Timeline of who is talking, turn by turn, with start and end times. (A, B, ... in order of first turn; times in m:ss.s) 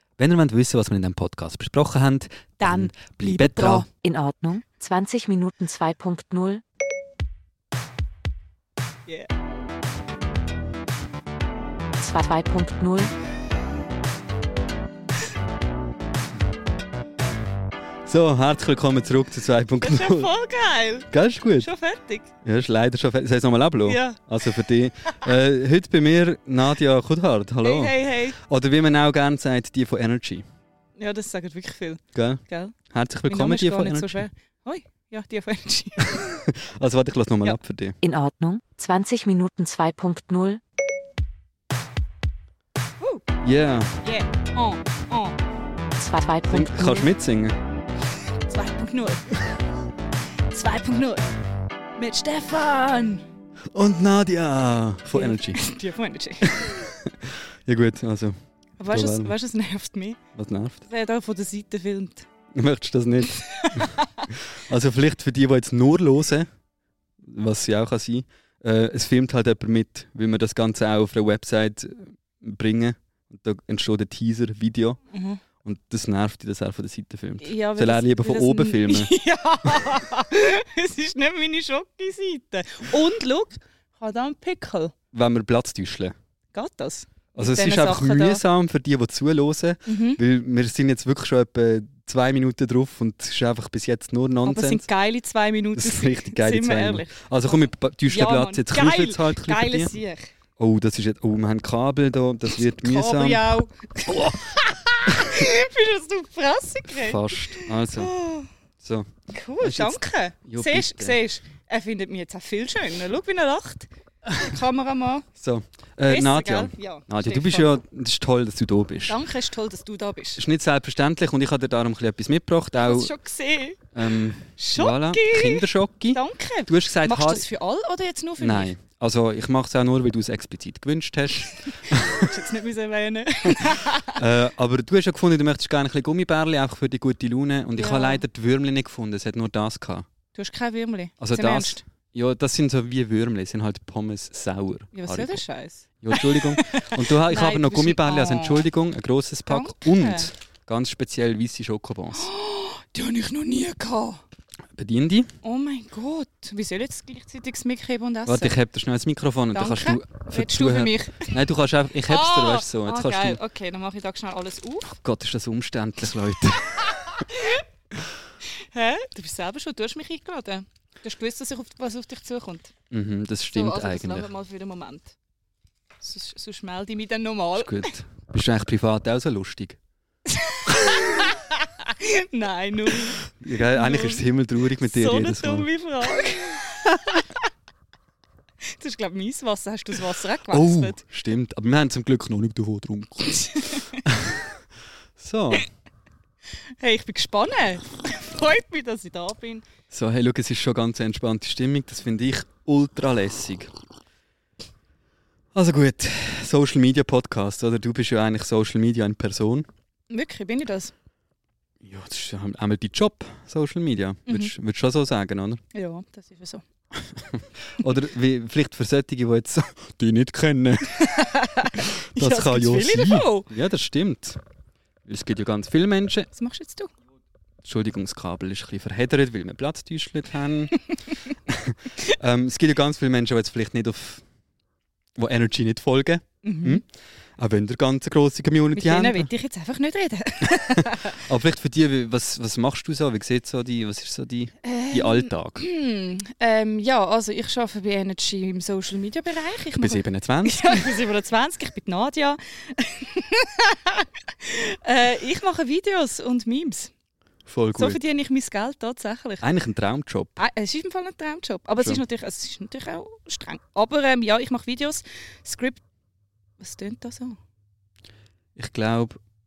0:00.2-0:03.9 A
0:02.6-0:03.9 B
0:04.0-0:06.6 C
0:12.0-0:13.1 C
0:18.1-0:20.3 A
0:19.8-0:22.3 B
0:21.1-0:21.7 A
0:22.4-0:30.5 A
0:23.9-0:24.2 B
0:27.6-0:28.4 B
0:31.0-0:32.8 B
0:32.1-0:34.3 A
0:33.3-0:36.3 B
0:36.0-0:38.0 A
0:38.0-0:40.6 C
0:43.0-0:43.2 B
0:43.4-0:43.9 A
0:44.0-0:45.4 B
0:46.0-0:47.1 C
0:46.5-0:47.6 A
0:48.4-0:49.4 B
0:50.5-0:51.3 B
0:52.0-0:53.3 B
0:53.7-0:55.6 A
0:55.1-0:56.9 B
0:56.5-0:59.3 A
0:58.8-1:00.2 B
1:00.4-1:00.8 A
1:00.9-1:02.3 B
1:02.5-1:06.5 A
1:03.2-1:04.3 B
1:07.2-1:15.0 A
1:15.1-1:15.4 B
1:15.6-1:19.1 A
1:17.4-1:24.9 B
1:25.1-1:26.2 A
1:26.5-1:28.4 B
1:27.4-1:34.9 A
1:29.9-1:30.2 B
1:34.4-1:40.3 B
1:35.8-1:39.9 A
1:40.6-1:43.4 A
1:42.6-1:48.5 B
1:44.1-1:45.5 A
1:46.9-1:48.1 A
1:48.8-1:51.2 A
1:49.3-1:55.2 B
1:55.4-1:59.2 A
1:56.1-1:57.8 B
1:59.1-2:00.4 B
2:00.4-2:03.1 A
2:02.8-2:08.7 B
2:04.0-2:07.5 A
2:08.4-2:12.3 A
2:11.5-2:14.2 B
2:13.5-2:20.1 A
2:17.8-2:18.2 B
2:20.4-2:21.8 B
2:21.2-2:25.4 A
2:24.9-2:28.7 B
2:26.0-2:32.3 A
2:29.5-2:30.3 B
2:32.1-2:34.2 B
2:34.8-2:35.3 A
2:35.4-2:38.5 B
2:38.3-2:43.4 A
2:39.5-2:41.4 B
2:42.1-2:44.9 B
2:45.0-2:47.2 A
2:47.2-2:47.6 B
2:48.5-2:52.7 B
2:52.9-2:54.3 A
2:53.5-2:55.2 B
2:56.0-2:58.0 B
2:57.6-2:59.8 A
3:00.3-3:04.2 B
3:00.7-3:01.2 A
3:03.3-3:05.7 A
3:04.8-3:07.3 B
3:08.6-3:11.0 B
3:10.5-3:14.5 A
3:13.4-3:14.0 B
3:15.2-3:15.6 A
3:16.8-3:19.6 B
3:19.9-3:23.7 A
3:25.5-3:29.7 A
3:30.1-3:30.9 B
3:31.8-3:35.6 A
3:35.7-3:36.6 B
3:37.0-3:41.0 A
3:40.9-3:43.5 B
3:42.2-3:44.4 A
3:45.1-3:46.3 A
3:46.4-3:46.9 B
3:47.6-3:50.8 A
3:51.5-3:54.2 A
3:55.2-3:56.9 A
3:56.4-3:56.8 B
3:57.4-3:59.3 A
3:58.8-4:01.2 B
4:00.4-4:05.6 A
4:04.6-4:16.9 B
4:09.8-4:10.8 A
4:17.5-4:18.0 A
4:17.8-4:19.5 B
4:19.4-4:20.4 A
4:20.4-4:25.8 B
4:26.6-4:27.4 B
4:28.6-4:29.2 A